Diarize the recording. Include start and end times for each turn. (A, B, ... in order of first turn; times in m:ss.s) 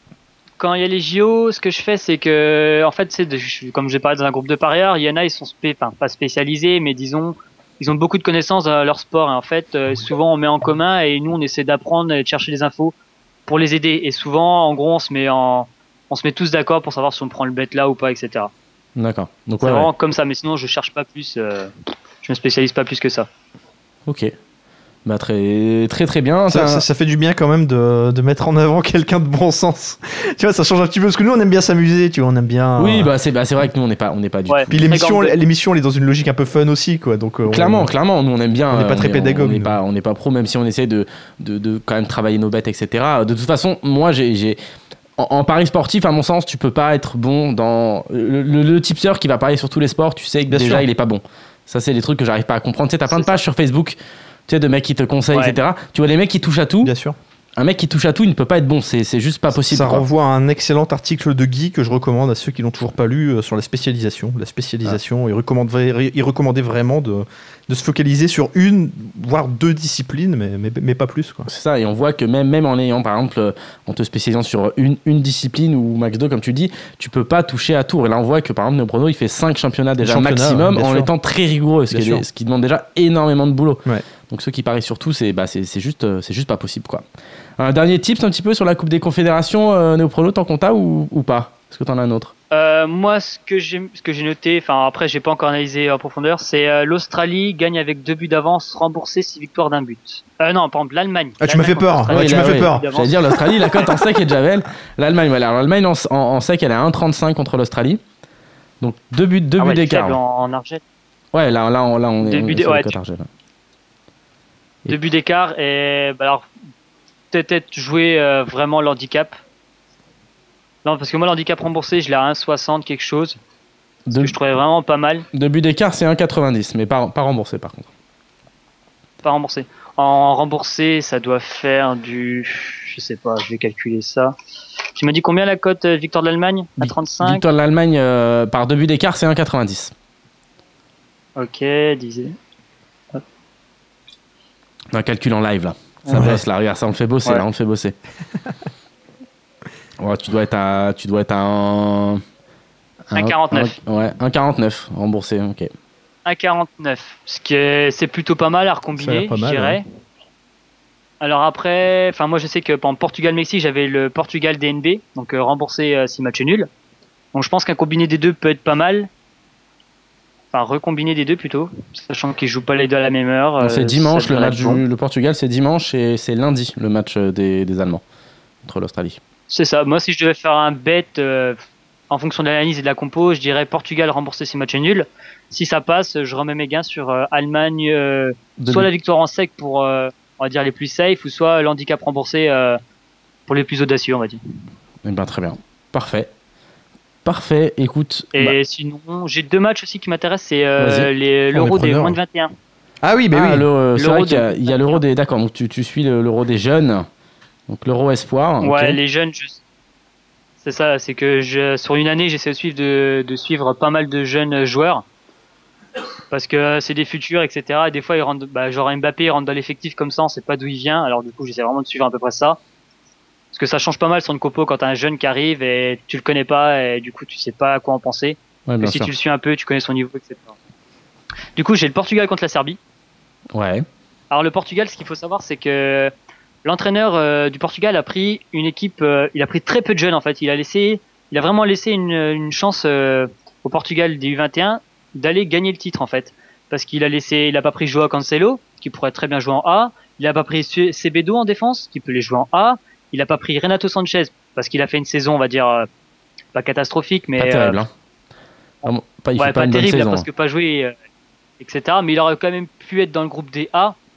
0:00.6-0:12.9 A
0:13.5-0:18.5 A
0:19.0-0:19.9 B
0:19.6-0:23.3 A
0:24.1-0:24.3 B
0:25.1-0:26.8 B
0:26.5-0:33.1 C
0:32.8-0:34.7 B
0:34.5-0:35.4 A
0:34.7-0:37.9 C
0:37.5-0:44.6 B
0:38.7-0:39.8 C
0:45.2-0:54.0 B
0:50.5-0:50.8 C
0:53.1-0:53.4 A
0:54.5-0:56.9 B
0:55.3-0:55.6 A
0:56.8-0:57.2 C
0:57.6-1:00.0 B
0:59.5-1:11.5 C
1:11.5-1:27.0 B
1:20.0-1:21.1 C
1:21.9-1:22.2 C
1:27.6-1:32.3 B
1:32.5-1:43.8 A
1:41.4-1:42.9 C
1:42.1-1:48.0 B
1:48.8-1:50.2 B
1:49.6-1:50.8 A
1:51.3-1:53.3 B
1:52.2-1:53.0 A
1:54.9-1:56.5 A
1:57.3-1:59.4 A
2:00.8-2:03.4 A
2:04.1-2:04.3 B
2:04.2-2:05.2 A
2:05.3-2:07.9 B
2:09.2-2:14.3 A
2:15.0-2:17.4 A
2:16.8-2:19.9 B
2:21.4-2:22.4 A
2:24.9-2:28.0 B
2:26.1-2:26.4 C
2:30.0-2:32.2 B
2:33.1-2:33.8 A
2:33.1-2:35.7 B
2:36.3-2:39.8 A
2:38.9-2:39.8 C
2:41.2-2:46.7 A
2:47.3-2:49.1 A
2:50.5-2:54.8 A
2:53.6-2:58.0 B
2:58.6-2:59.2 B
2:59.5-3:01.6 A
3:02.1-3:12.8 A
3:08.6-3:08.9 B
3:13.5-3:14.4 A
3:15.0-3:16.3 B
3:17.2-3:18.6 B
3:18.3-3:22.5 A
3:20.8-3:21.1 B
3:21.5-3:22.2 C
3:23.0-3:23.7 C
3:23.3-3:27.1 B
3:24.0-3:25.0 A
3:27.7-3:29.0 B
3:28.6-3:29.6 A
3:30.6-3:35.0 A
3:36.3-3:42.6 A
3:43.5-3:50.6 A
3:48.7-3:49.1 B
3:51.6-3:52.8 A
3:53.5-3:53.8 B
3:54.3-3:56.1 A
3:56.6-4:15.9 A
4:16.5-4:17.8 A
4:17.4-4:17.9 B
4:18.8-4:20.3 B
4:19.4-4:20.9 A
4:21.6-4:24.0 A